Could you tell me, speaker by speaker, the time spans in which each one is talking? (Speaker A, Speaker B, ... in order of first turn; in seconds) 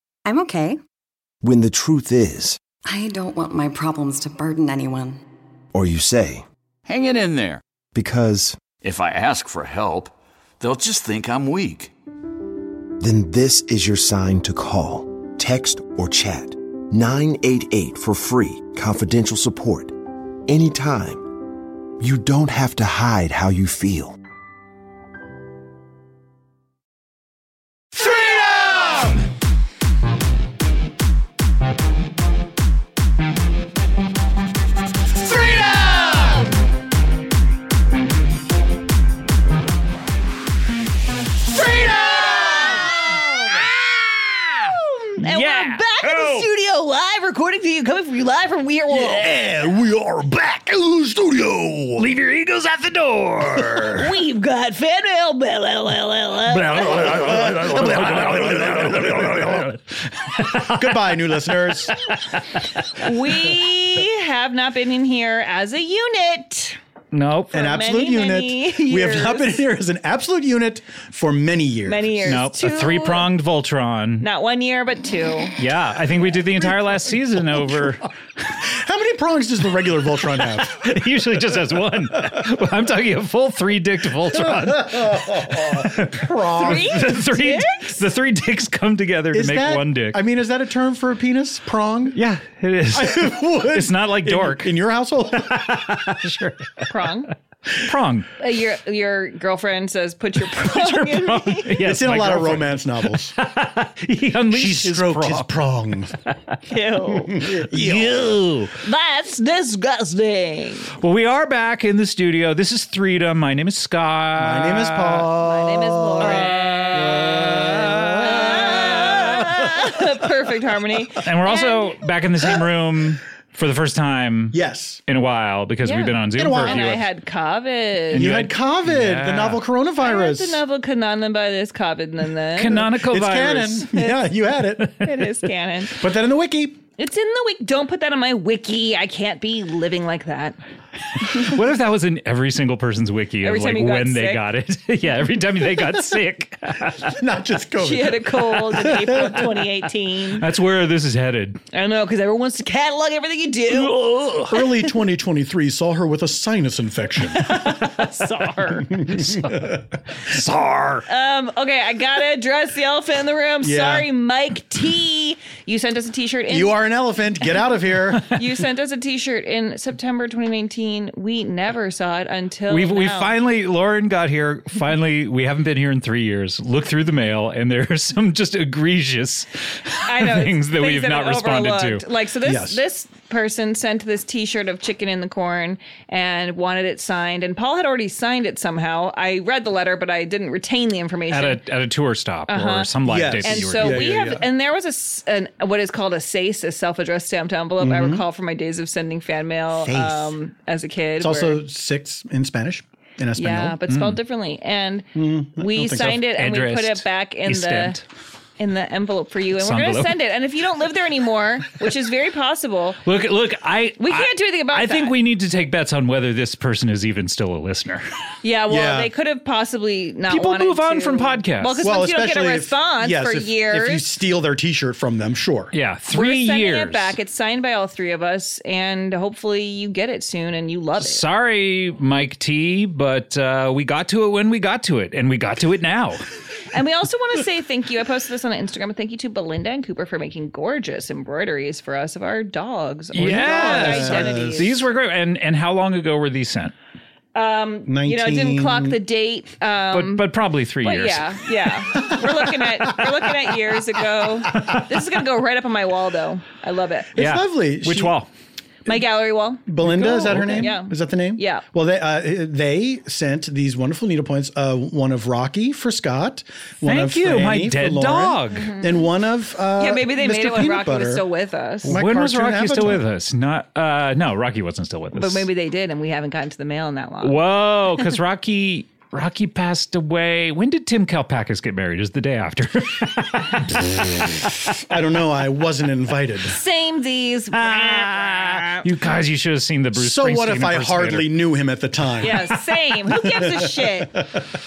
Speaker A: 0.2-0.8, 2.9-5.2
Speaker B: 1.4-2.6, 5.7-6.4, 7.9-8.6, 13.0-21.4, 22.0-24.2
Speaker C: 6.8-7.6, 8.8-11.9
Speaker D: 27.9-29.1, 41.5-43.6, 49.2-52.1, 56.8-59.7, 60.6-62.0, 67.5-72.3, 76.6-78.0, 78.6-80.9, 84.3-87.1, 89.3-92.2, 92.9-96.1, 101.8-103.3, 104.5-106.2, 107.3-108.4, 114.4-119.5, 124.5-125.0, 126.3-127.0, 128.1-130.6, 132.8-134.9, 135.9-136.8, 147.0-149.4, 154.5-157.5, 159.1-159.8, 163.6-164.1, 166.5-168.2, 182.4-182.8, 193.0-194.5, 197.8-198.2, 199.7-200.4, 201.2-203.8, 205.1-206.2, 218.7-219.1, 221.8-225.7, 243.2-244.8, 247.8-249.0, 257.1-258.1, 259.7-271.2, 271.9-273.0, 284.6-286.6, 289.9-292.6, 293.1-294.4
Speaker E: 35.3-36.5, 41.7-42.9, 44.6-49.3, 54.0-57.2, 63.0-66.8, 67.5-69.5, 71.8-73.3, 74.2-75.6, 86.6-88.0, 96.9-97.3, 98.4-101.8, 106.7-107.5, 108.8-110.9, 115.3-117.6, 118.2-122.0, 125.8-128.3, 130.0-132.9, 135.0-136.0, 137.0-140.6, 143.4-144.4, 147.8-150.4, 151.7-154.4, 157.3-159.1, 161.1-166.7, 168.2-173.3, 180.0-191.6, 192.5-201.6, 203.4-208.0, 208.6-213.0, 214.0-215.2, 218.4-224.0, 226.1-231.2, 236.7-244.8, 247.3-250.3, 250.8-257.1, 258.9-261.6, 268.6-269.0, 269.8-272.0, 275.1-277.4, 286.4-288.9, 292.2-294.2
Speaker F: 45.2-46.5, 52.0-54.1, 56.5-62.4, 67.1-67.6, 72.2-74.2, 75.6-78.1, 80.6-90.2, 92.1-94.7, 95.4-96.9, 97.7-98.3, 100.5-105.5, 107.4-108.8, 111.0-115.3, 116.2-119.2, 121.2-127.0, 128.1-129.6, 132.6-134.1, 141.2-147.2, 150.4-151.6, 153.7-154.6, 158.9-161.1, 172.7-182.0, 191.3-194.1, 203.9-204.2, 205.8-208.0, 209.6-210.2, 213.0-218.1, 220.3-221.9, 225.7-227.1, 231.0-236.2, 243.1-246.7, 249.9-251.4, 257.2-258.3, 259.8-260.7, 266.8-268.7, 271.8-275.4, 277.2-284.4, 287.6-291.3